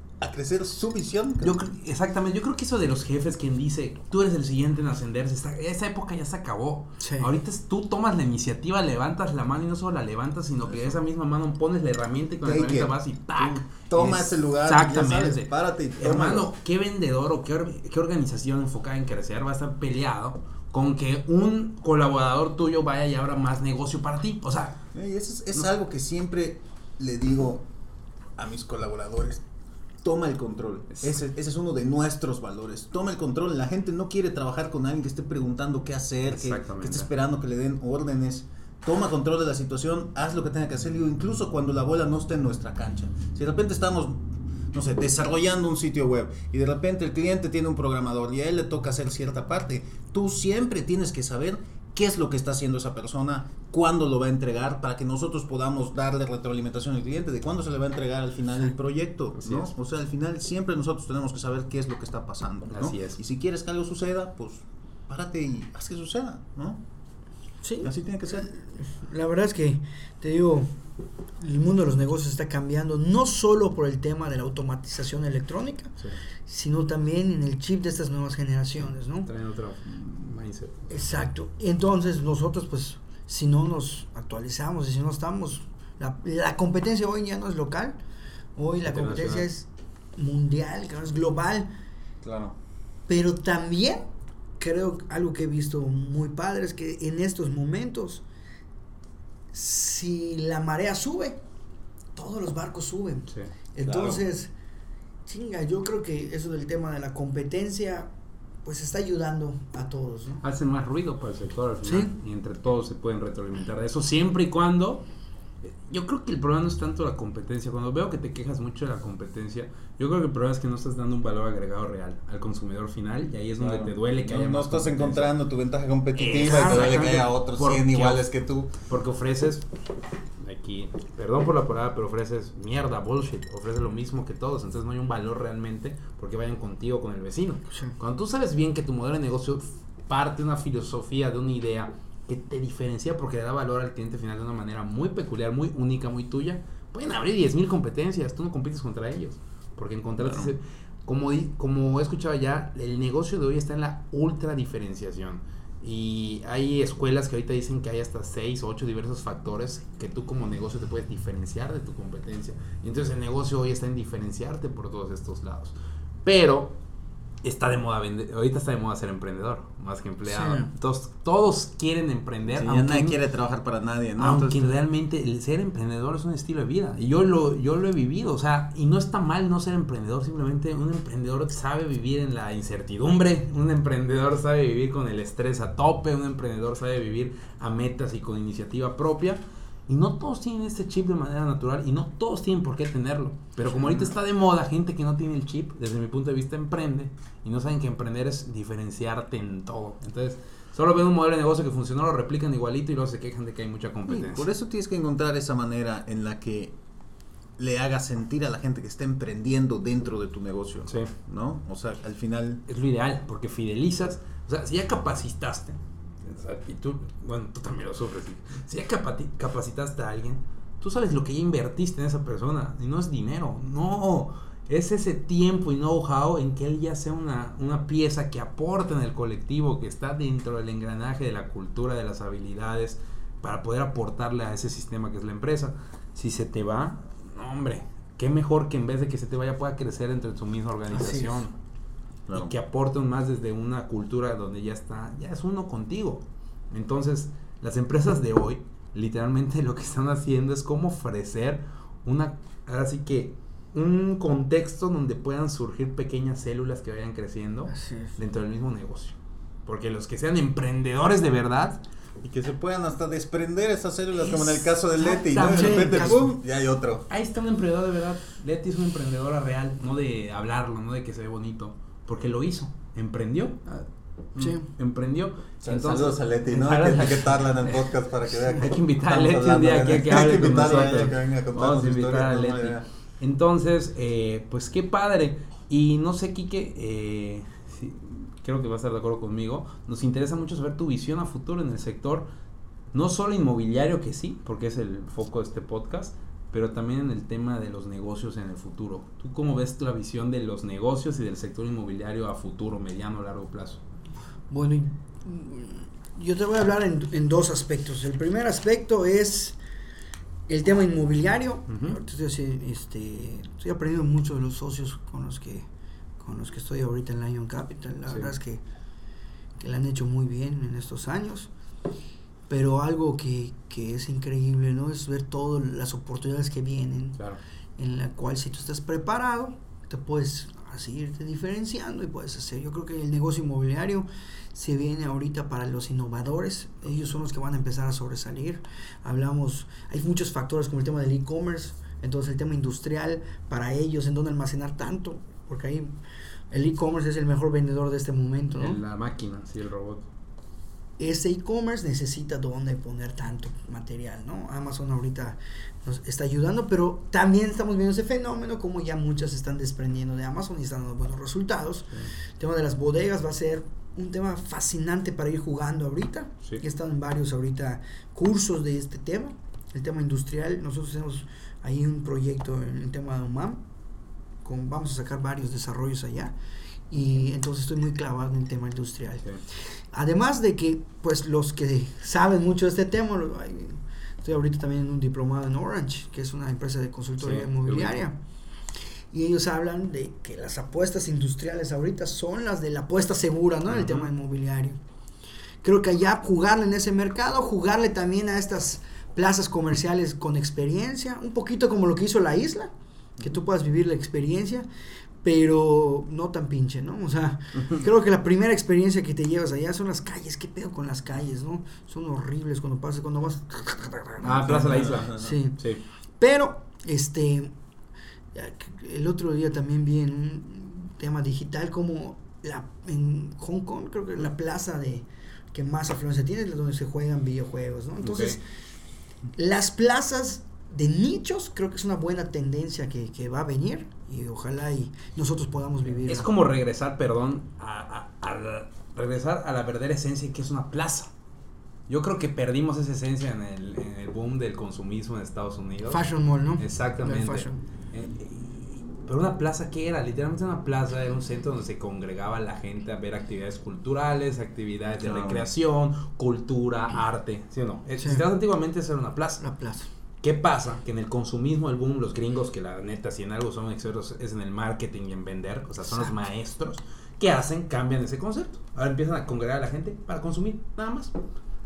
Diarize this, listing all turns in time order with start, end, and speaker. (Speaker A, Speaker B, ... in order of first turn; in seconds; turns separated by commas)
Speaker A: 0.2-1.7, Speaker B: 1.4-24.8, Speaker C: 7.0-7.3, Speaker A: 10.7-11.0, Speaker A: 12.4-16.5, Speaker A: 24.9-27.6, Speaker A: 28.4-29.4, Speaker A: 30.0-66.8, Speaker B: 30.9-31.2, Speaker B: 36.3-37.1, Speaker B: 59.4-59.7, Speaker B: 62.7-63.2, Speaker C: 67.6-70.7, Speaker A: 67.8-68.5, Speaker C: 71.4-75.9, Speaker C: 76.5-79.3, Speaker B: 79.2-81.0, Speaker C: 80.9-88.0, Speaker C: 88.6-91.7, Speaker B: 88.8-89.5, Speaker A: 92.2-92.5, Speaker C: 93.1-94.0, Speaker C: 94.6-98.2, Speaker C: 99.5-101.4, Speaker C: 102.2-104.5, Speaker A: 103.8-104.2, Speaker C: 105.3-108.1, Speaker C: 108.7-110.4, Speaker B: 110.4-115.0, Speaker C: 111.8-112.1, Speaker B: 115.6-125.3, Speaker A: 123.6-128.7, Speaker B: 126.2-128.2, Speaker C: 126.4-126.9, Speaker B: 128.9-129.7, Speaker B: 130.4-166.8, Speaker C: 137.7-138.0, Speaker A: 150.2-150.5, Speaker B: 167.4-173.2, Speaker C: 170.3-170.7, Speaker A: 172.6-174.8, Speaker B: 174.2-204.5, Speaker C: 193.7-194.1, Speaker A: 204.1-206.8, Speaker A: 207.6-212.6, Speaker B: 210.9-211.1, Speaker B: 212.7-241.5, Speaker C: 240.9-241.4, Speaker A: 242.3-242.5, Speaker B: 242.3-261.8, Speaker C: 257.7-258.1, Speaker A: 262.2-267.1, Speaker C: 264.2-266.2, Speaker B: 265.5-266.2, Speaker B: 267.1-277.8, Speaker C: 274.4-274.6, Speaker A: 275.6-282.9, Speaker B: 278.5-292.3, Speaker B: 292.9-303.8, Speaker C: 304.5-309.6, Speaker C: 310.5-315.7, Speaker B: 311.7-312.0, Speaker C: 316.2-318.6, Speaker B: 318.1-318.3, Speaker C: 319.6-321.5, Speaker C: 322.5-327.2, Speaker C: 327.8-345.9, Speaker C: 346.5-348.8, Speaker B: 348.6-350.1, Speaker C: 351.0-373.6, Speaker C: 374.4-376.4, Speaker C: 376.9-379.2, Speaker C: 379.9-388.2, Speaker B: 387.2-388.1, Speaker C: 389.1-394.8, Speaker B: 393.7-394.1, Speaker C: 395.6-404.7, Speaker C: 405.2-415.6, Speaker B: 414.2-415.8, Speaker A: 414.3-415.4, Speaker C: 416.2-417.5, Speaker C: 418.3-428.4, Speaker B: 428.0-428.4, Speaker C: 429.4-436.3, Speaker B: 436.1-441.1, Speaker B: 441.9-446.0, Speaker C: 445.9-447.6, Speaker B: 446.6-459.4, Speaker A: 455.0-455.5, Speaker C: 458.0-458.2, Speaker C: 459.4-459.9, Speaker B: 460.2-471.1